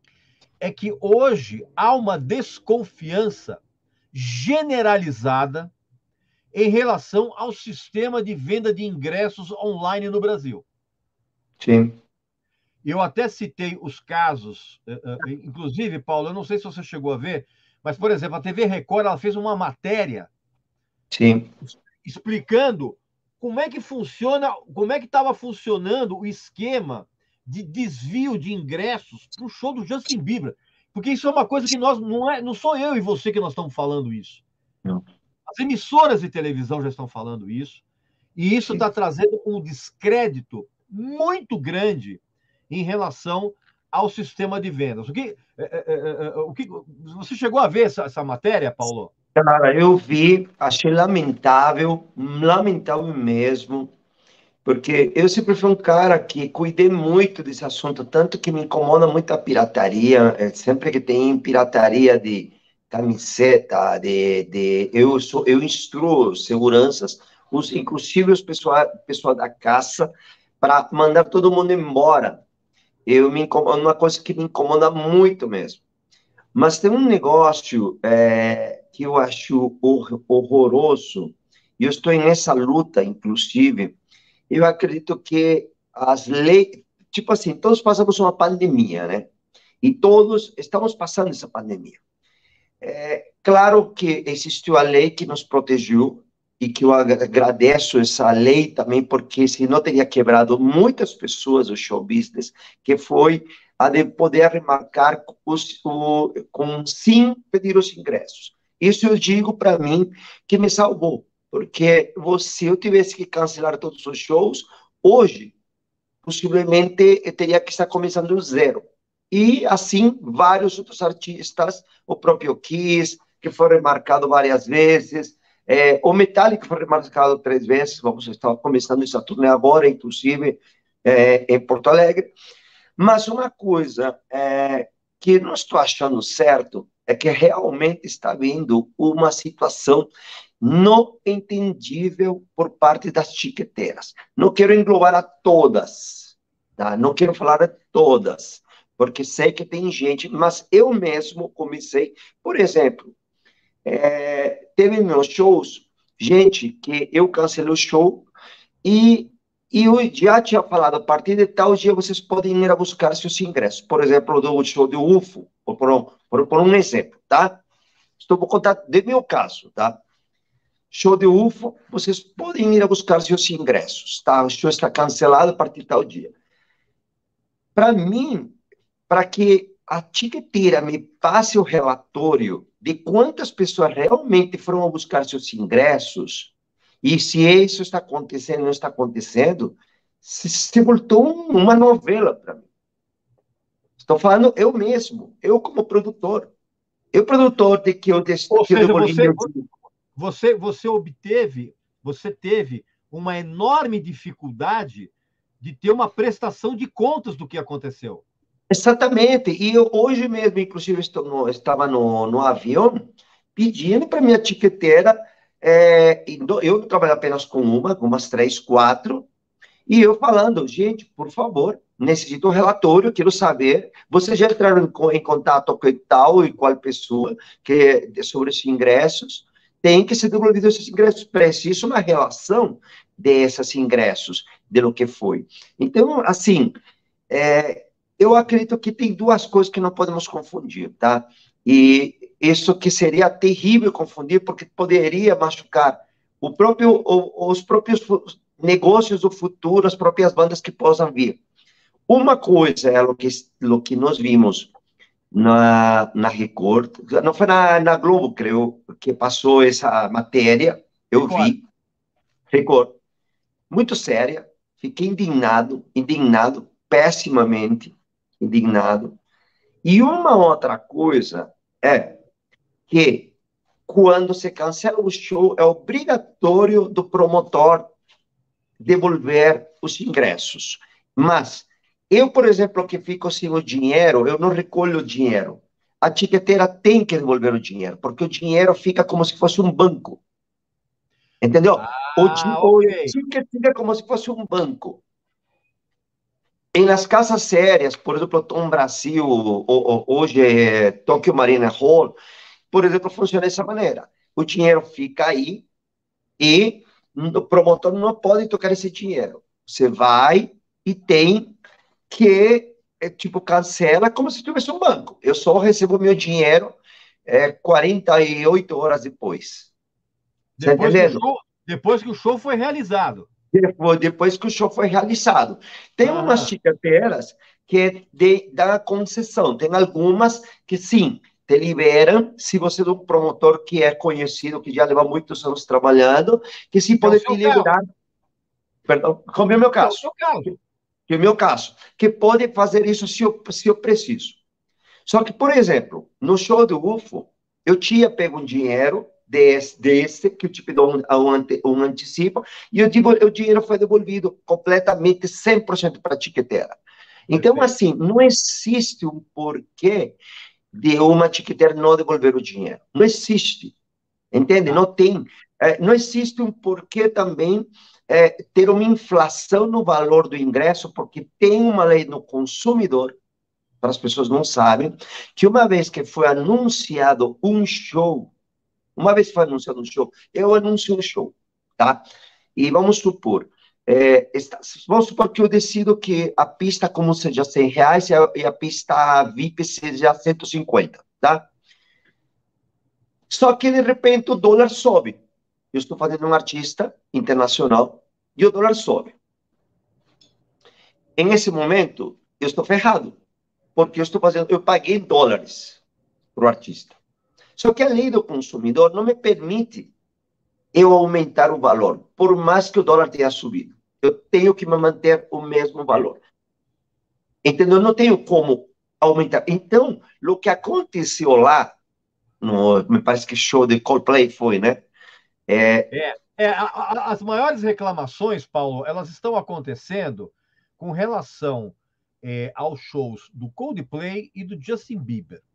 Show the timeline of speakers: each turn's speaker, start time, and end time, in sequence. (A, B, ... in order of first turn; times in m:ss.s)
0:00.6-0:03.6 A
0:04.1-0:05.7 A
0:06.5-0:10.6 A
0:11.6-0:12.0 B
0:12.8-0:20.3 A
0:21.1-0:21.5 B
0:21.6-0:34.4 A
0:35.5-0:37.8 A
0:38.4-0:49.1 A
0:49.4-0:53.9 B
0:54.6-1:12.4 B
1:13.1-1:15.8 B
1:16.6-1:24.0 B
1:24.5-1:29.3 B
1:29.8-1:32.0 B
1:32.8-1:55.6 B
1:56.2-2:12.3 B
2:13.0-2:20.1 B
2:20.6-2:33.1 B
2:33.8-2:38.3 B
2:38.8-2:47.6 B
2:48.2-2:50.0 B
2:50.9-2:56.3 B
2:57.8-2:58.6 B
2:59.1-3:12.6 B
3:14.0-3:16.5 B
3:17.1-3:19.7 B
3:18.5-3:19.5 A
3:20.2-3:28.2 A
3:28.7-3:39.3 B
3:39.9-3:56.8 B
3:57.3-4:11.4 B
4:12.1-4:14.7 B
4:15.3-4:21.6 B
4:21.2-4:21.6 A
4:22.5-4:23.0 B
4:23.7-4:29.2 B
4:29.8-4:32.2 B
4:32.9-4:33.3 B
4:33.9-4:37.9 B
4:38.8-4:50.2 B
4:51.4-4:55.0 B
4:51.8-4:53.2 A
4:56.7-5:02.2 B
5:02.7-5:05.6 B
5:06.4-5:11.6 B
5:12.1-5:19.7 B
5:20.6-5:23.3 A
5:20.6-5:21.2 B
5:23.5-5:37.8 B
5:26.0-5:26.5 A
5:37.0-5:37.7 A
5:38.9-5:40.0 B
5:39.8-5:40.6 A
5:41.1-5:44.4 B
5:45.1-6:00.2 B
5:57.4-5:57.7 A
6:00.7-6:03.8 B
6:04.3-6:13.2 B
6:13.8-6:18.3 B
6:19.0-6:22.0 B
6:22.6-6:31.5 B
6:33.3-6:35.2 B
6:35.7-6:39.2 B
6:41.2-6:43.2 B
6:43.8-6:45.8 B
6:46.4-6:47.0 B
6:47.6-6:49.9 B
6:50.7-6:56.2 B
6:57.4-7:01.7 B
7:02.4-7:04.9 B
7:05.5-7:05.9 B
7:05.9-7:15.4 A